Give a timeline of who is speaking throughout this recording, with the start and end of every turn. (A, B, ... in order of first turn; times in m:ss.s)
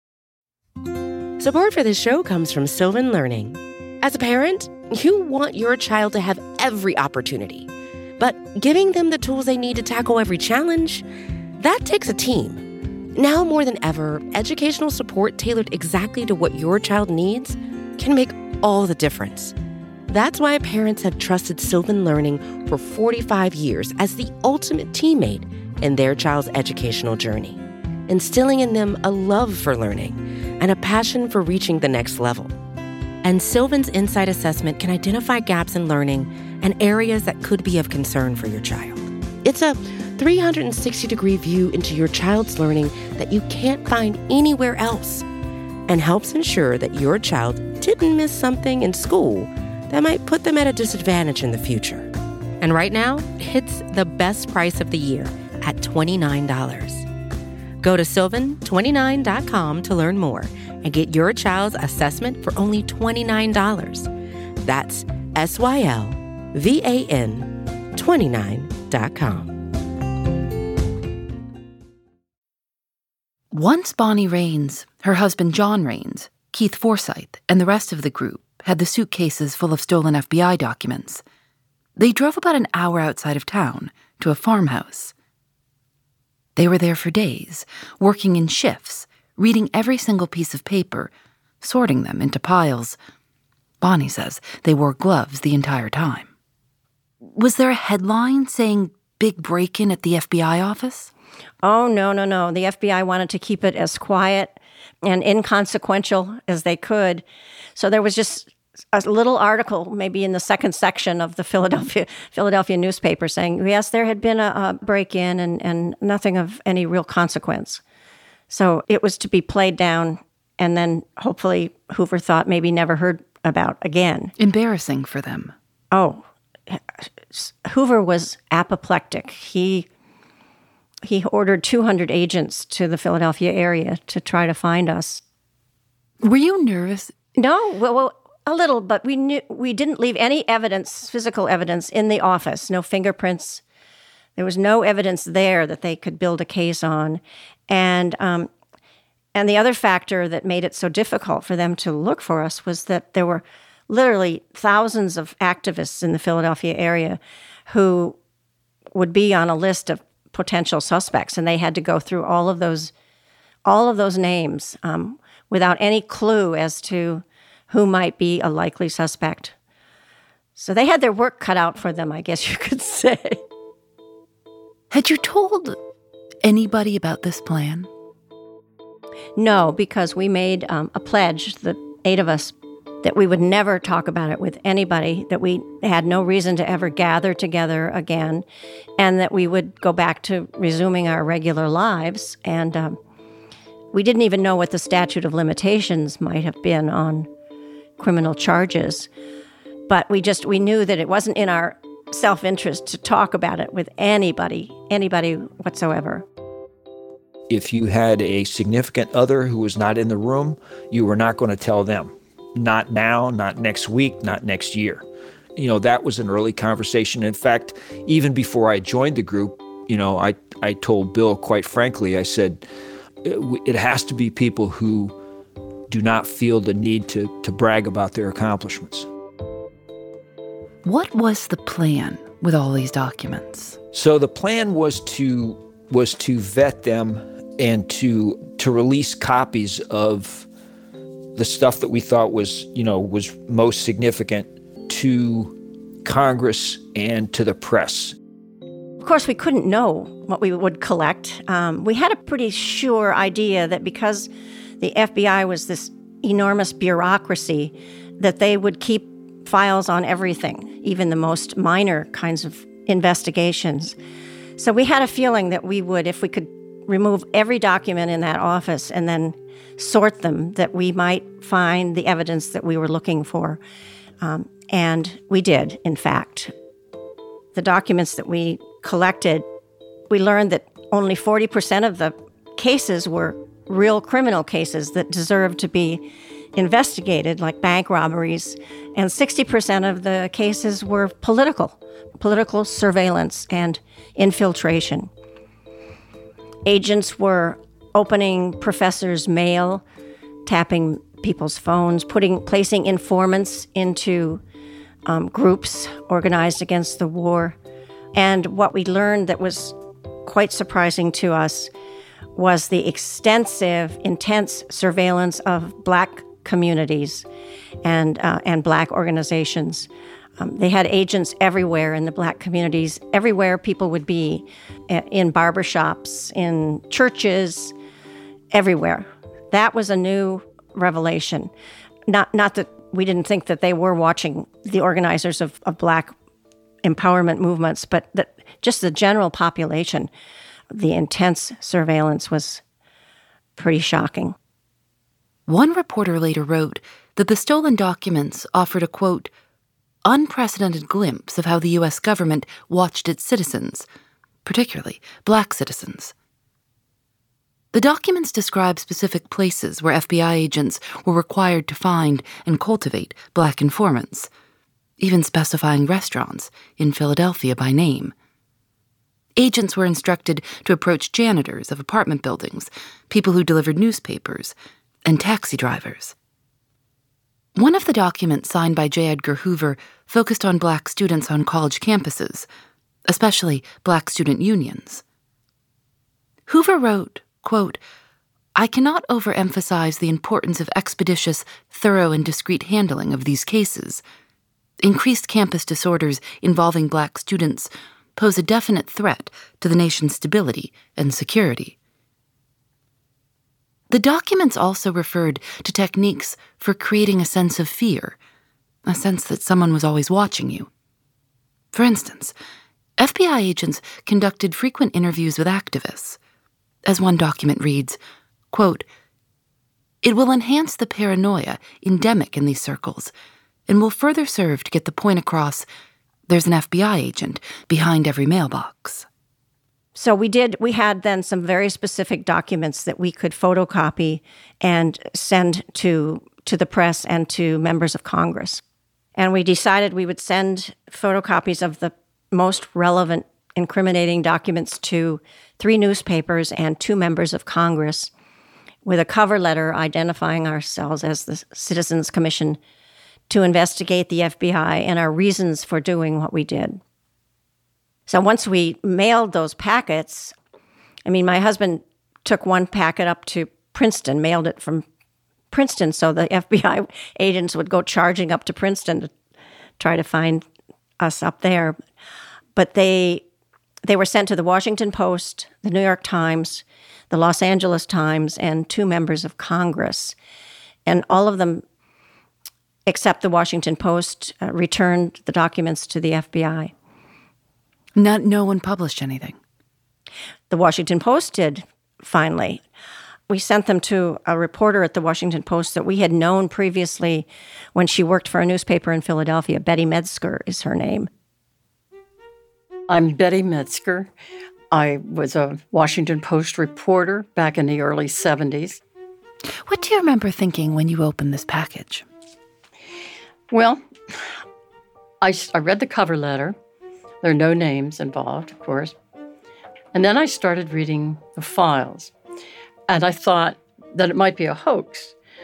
0:01.4-0:11.0 A
0:11.6-0:12.6 A
0:13.1-0:19.6 A
0:20.1-0:32.6 A
0:33.2-0:45.2 A
0:45.9-0:57.1 A
0:57.8-1:09.6 A
1:13.5-1:21.2 B
1:22.0-1:25.1 B
1:26.6-1:31.1 B
1:31.6-1:33.0 B
1:33.8-1:36.3 B
1:37.3-1:41.1 B
1:41.6-1:47.2 C
1:47.8-1:57.8 C
1:58.5-2:04.3 C
2:04.4-2:05.5 B
2:05.9-2:06.8 C
2:07.3-2:09.9 C
2:11.0-2:15.2 C
2:16.2-2:17.1 B
2:17.4-2:23.6 C
2:24.4-2:28.5 C
2:29.3-2:38.2 C
2:38.9-2:42.9 C
2:43.6-2:49.5 C
2:50.6-2:53.4 C
2:54.9-2:55.8 B
2:56.4-2:57.9 B
2:59.4-3:08.4 C
3:09.0-3:13.0 C
3:13.9-3:17.3 C
3:18.0-3:19.1 C
3:19.9-3:26.2 C
3:27.5-3:35.0 D
3:35.6-3:42.6 D
3:43.2-3:45.2 D
3:45.9-3:49.1 D
3:50.8-3:53.8 B
3:53.9-4:00.5 D
4:01.3-4:08.2 D
4:09.0-4:24.0 C
4:24.6-4:33.6 C
4:34.2-4:36.5 C
4:37.5-4:39.4 C
4:40.1-4:55.1 C
4:56.6-4:59.8 C
5:00.4-5:04.4 C
5:05.0-5:07.6 C
5:08.1-5:11.7 C
5:12.4-5:17.2 C
5:17.8-5:27.7 C
5:28.5-5:31.5 C
5:32.1-5:36.1 C
5:36.8-5:40.1 C
5:40.7-5:42.6 C
5:43.6-5:44.4 C
5:45.5-5:49.3 B
5:50.0-5:53.8 B
5:54.4-5:56.1 B
5:57.7-6:04.3 B
6:05.0-6:08.1 B
6:09.4-6:14.5 B
6:15.0-6:16.1 B
6:17.5-6:22.5 B
6:23.1-6:25.0 B
6:26.5-6:27.8 B
6:28.6-6:34.0 B
6:34.8-6:41.8 B
6:43.9-6:48.2 B
6:48.8-6:50.7 B
6:51.7-6:52.3 B
6:53.0-6:56.2 B
6:56.8-6:58.0 B
6:58.5-6:58.8 B
7:00.0-7:03.1 B
7:03.7-7:05.6 B
7:06.3-7:09.0 B
7:09.9-7:18.6 C
7:19.2-7:28.1 C
7:28.8-7:32.6 C
7:33.3-7:36.8 C
7:38.1-7:40.3 C
7:41.0-7:44.8 C
7:45.5-7:49.1 C
7:49.8-7:50.4 C
7:51.0-7:51.8 C
7:52.6-7:53.2 C
7:53.8-8:00.1 C
8:00.8-8:01.6 C
8:02.9-8:06.7 C
8:08.0-8:09.4 B
8:10.5-8:12.6 C
8:13.3-8:21.1 C
8:22.9-8:24.1 E
8:24.7-8:28.8 E
8:29.6-8:32.0 B
8:33.5-8:33.8 E
8:35.2-8:36.5 E
8:37.2-8:38.9 E
8:39.9-8:42.1 E
8:42.9-8:45.2 E